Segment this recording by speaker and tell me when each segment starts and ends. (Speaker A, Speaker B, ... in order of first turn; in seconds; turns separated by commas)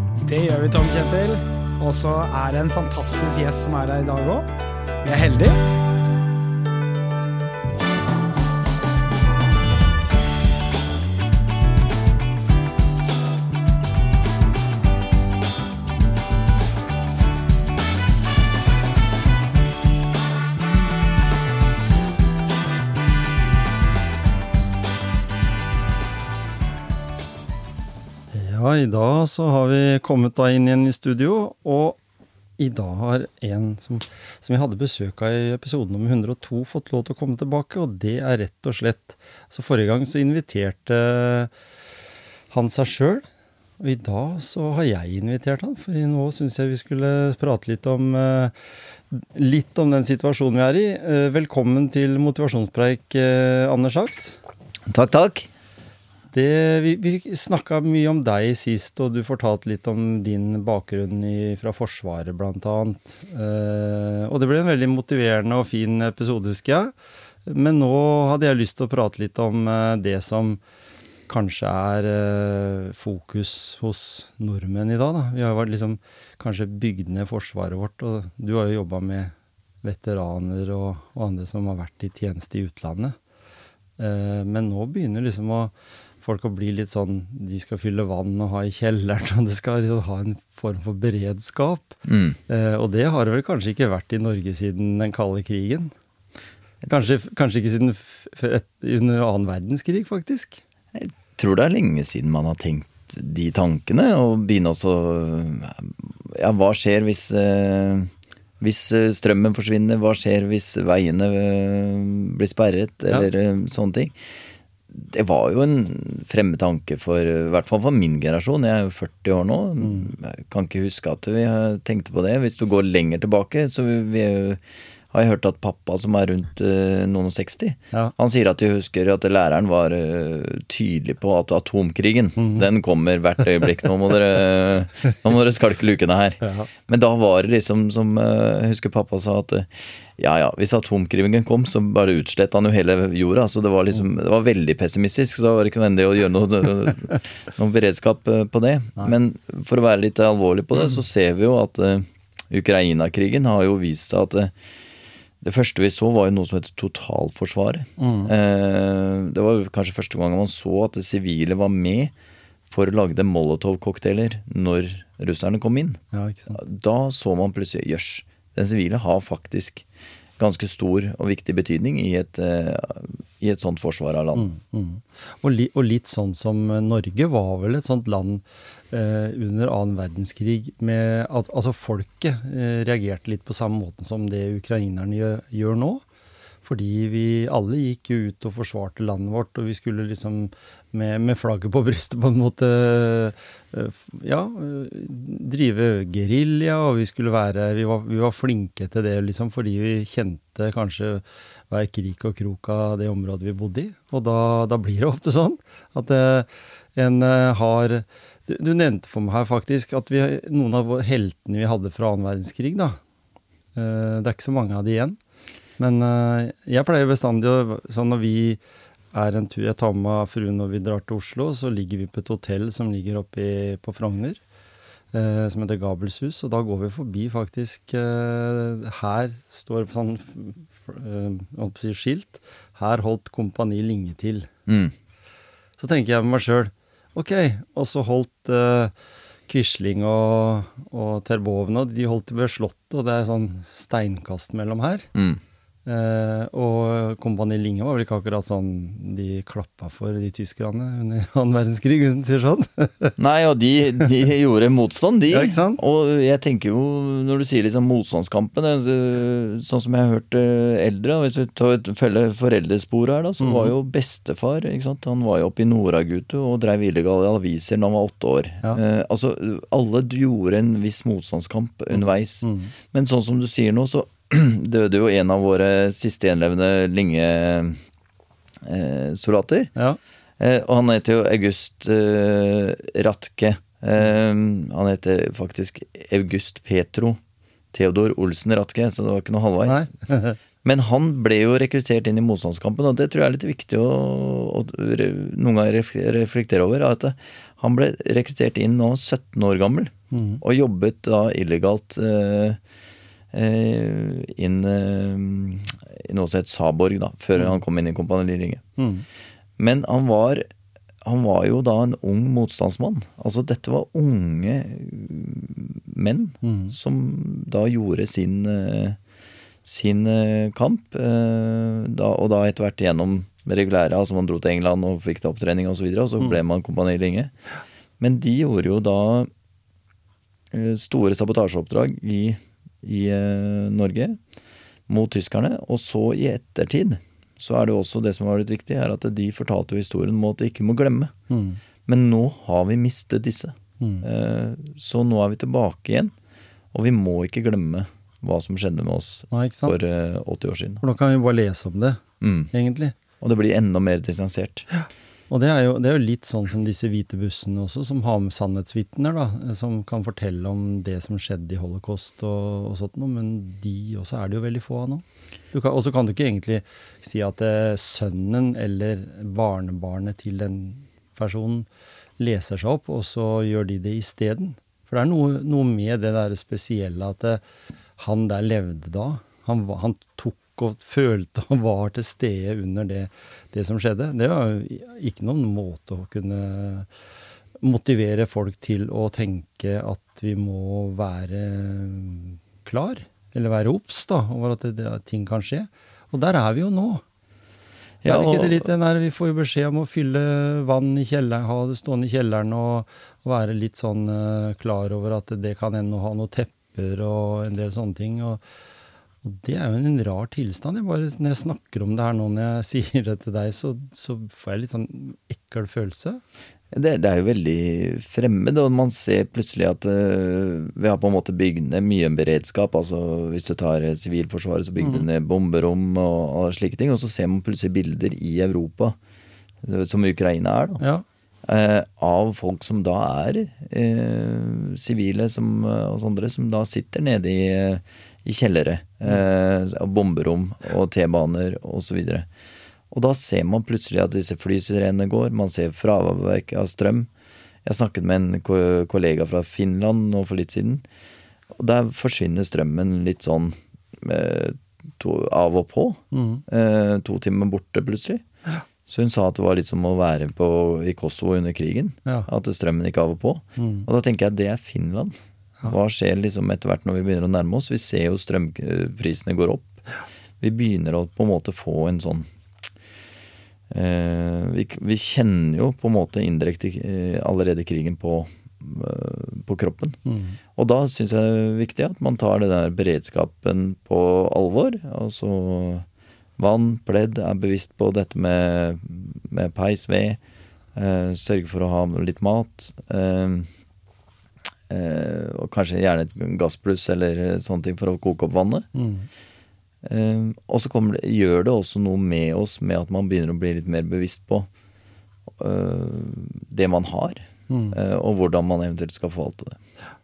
Speaker A: 0.2-4.5, Speaker A: 5.0-5.6, Speaker B: 28.3-32.0, Speaker B: 32.6-41.5, Speaker B: 42.5-43.2, Speaker B: 43.8-48.5, Speaker B: 49.1-54.4, Speaker C: 54.9-55.5, Speaker B: 56.3-66.9, Speaker B: 67.5-70.6, Speaker B: 71.3-83.2, Speaker B: 84.0-95.9, Speaker C: 92.0-92.4, Speaker B: 96.8-100.6, Speaker C: 100.9-114.2, Speaker C: 114.9-154.5, Speaker B: 119.8-120.1, Speaker B: 132.4-132.7, Speaker B: 136.4-136.7, Speaker C: 155.4-162.1, Speaker B: 158.0-158.3, Speaker C: 162.7-166.0, Speaker B: 166.1-166.6, Speaker C: 166.5-169.8, Speaker C: 170.4-174.5, Speaker B: 174.3-186.0, Speaker B: 186.6-213.0, Speaker B: 213.7-215.2, Speaker B: 215.8-218.6, Speaker B: 219.1-224.4, Speaker B: 225.1-234.5, Speaker C: 234.7-234.9, Speaker B: 235.8-238.9, Speaker B: 239.5-245.1, Speaker C: 245.1-245.4, Speaker B: 245.8-253.2, Speaker C: 253.2-277.8, Speaker B: 255.3-255.8, Speaker B: 263.4-263.7, Speaker B: 272.4-272.7, Speaker C: 278.6-279.7, Speaker C: 280.4-287.2, Speaker C: 287.7-289.9, Speaker B: 289.7-290.4, Speaker C: 290.6-302.6, Speaker B: 300.1-300.4, Speaker C: 303.3-308.6, Speaker B: 308.8-309.1, Speaker C: 309.6-310.4, Speaker C: 311.0-319.0, Speaker B: 316.4-316.7, Speaker C: 319.6-327.3, Speaker C: 328.0-329.3, Speaker C: 330.5-334.2, Speaker C: 334.9-341.1, Speaker B: 341.3-341.6, Speaker C: 341.9-346.1, Speaker B: 343.8-344.1, Speaker C: 346.7-350.8, Speaker B: 349.3-349.7, Speaker B: 350.8-352.0, Speaker C: 352.2-352.5, Speaker B: 352.5-352.9, Speaker C: 353.2-354.7, Speaker B: 355.3-371.7, Speaker B: 372.2-377.4, Speaker B: 378.0-386.9, Speaker B: 387.6-397.0, Speaker C: 398.0-398.7, Speaker B: 398.1-408.4, Speaker B: 409.2-416.2, Speaker C: 416.7-429.0, Speaker C: 429.6-430.8, Speaker B: 430.8-431.0, Speaker C: 431.4-442.3, Speaker C: 442.9-447.1, Speaker C: 447.6-450.8, Speaker C: 451.5-458.2, Speaker B: 456.1-456.4, Speaker C: 458.9-469.8, Speaker B: 463.6-463.9, Speaker C: 470.4-472.3, Speaker C: 473.7-480.0, Speaker B: 480.1-480.4, Speaker C: 480.6-485.9, Speaker C: 486.4-490.2, Speaker C: 490.7-493.5, Speaker C: 494.7-498.7, Speaker B: 498.7-499.1, Speaker C: 499.8-504.5, Speaker C: 505.4-509.6, Speaker B: 507.5-507.8